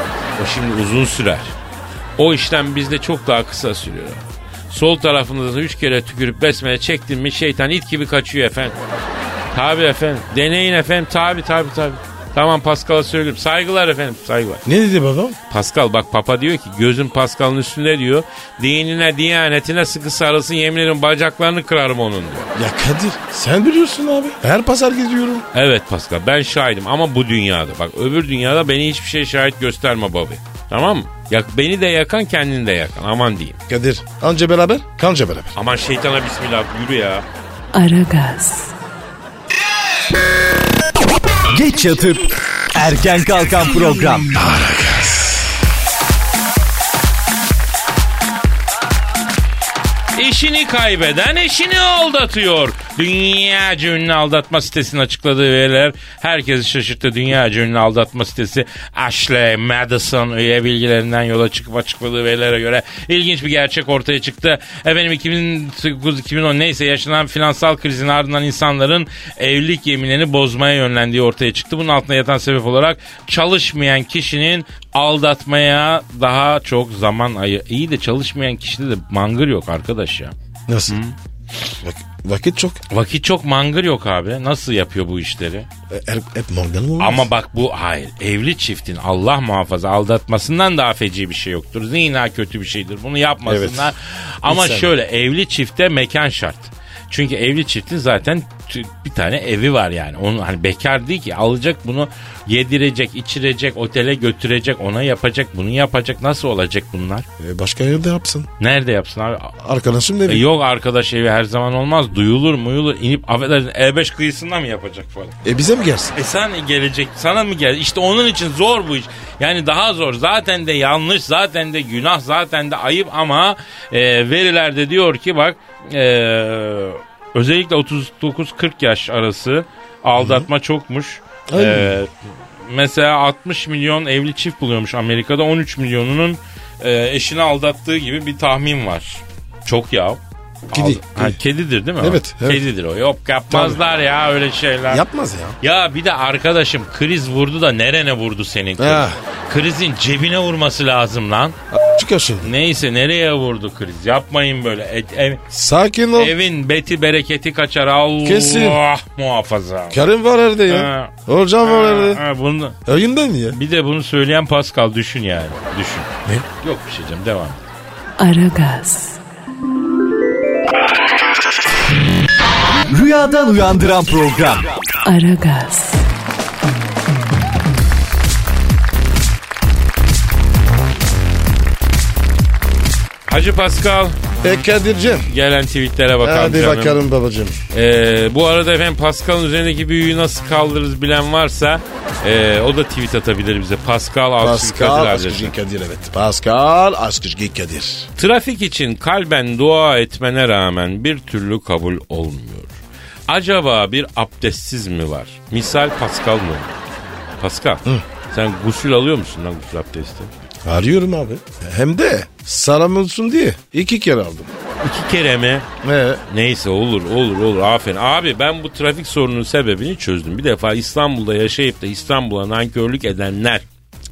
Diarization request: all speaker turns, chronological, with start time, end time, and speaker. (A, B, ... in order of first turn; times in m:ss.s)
0:00.4-0:01.6 A
0:02.2-0:08.8 A
0:09.5-0:14.6 A
0:14.6-0:15.4 B
0:15.5-0:22.5 A
0:22.6-0:25.5 B
0:25.5-0:33.6 A
0:33.7-0:35.5 B
0:35.6-0:37.3 A
0:37.7-0:38.7 C
0:41.5-0:44.3 D
0:44.3-0:45.5 B
0:50.2-1:20.4 A
1:20.7-1:21.0 B
1:20.9-1:21.2 A
1:21.7-1:22.8 B
1:22.9-1:25.7 A
1:25.9-1:27.3 B
1:27.0-1:47.3 A
1:33.5-1:33.9 B
1:34.5-1:34.9 B
1:47.4-1:48.5 B
1:48.6-1:49.6 A
1:49.6-1:50.5 B
1:50.3-1:55.4 A
1:55.4-1:56.2 B
1:56.2-2:25.0 A
2:10.2-2:10.5 B
2:11.5-2:12.0 B
2:20.7-2:21.4 B
2:22.0-2:22.6 B
2:23.5-2:23.8 B
2:24.9-2:25.6 B
2:25.6-2:31.6 A
2:28.8-2:29.2 B
2:31.7-2:32.5 B
2:32.4-2:35.4 A
2:35.5-2:36.4 B
2:36.2-2:40.0 A
2:38.2-2:38.8 B
2:39.9-2:42.2 B
2:40.7-2:42.8 A
2:42.9-2:43.6 B
2:43.5-2:47.6 A
2:48.2-2:49.2 C
2:52.9-2:54.7 D
2:55.0-2:56.0 C
3:03.3-3:04.3 A
3:04.4-3:05.3 B
3:05.3-3:07.0 A
3:06.2-3:07.6 B
3:07.7-3:15.5 A
3:14.4-3:18.1 B
3:18.2-3:22.8 A
3:23.3-3:26.8 A
3:27.4-3:30.3 A
3:30.6-3:34.5 B
3:34.8-3:35.7 A
3:35.8-3:36.2 B
3:36.3-3:43.7 A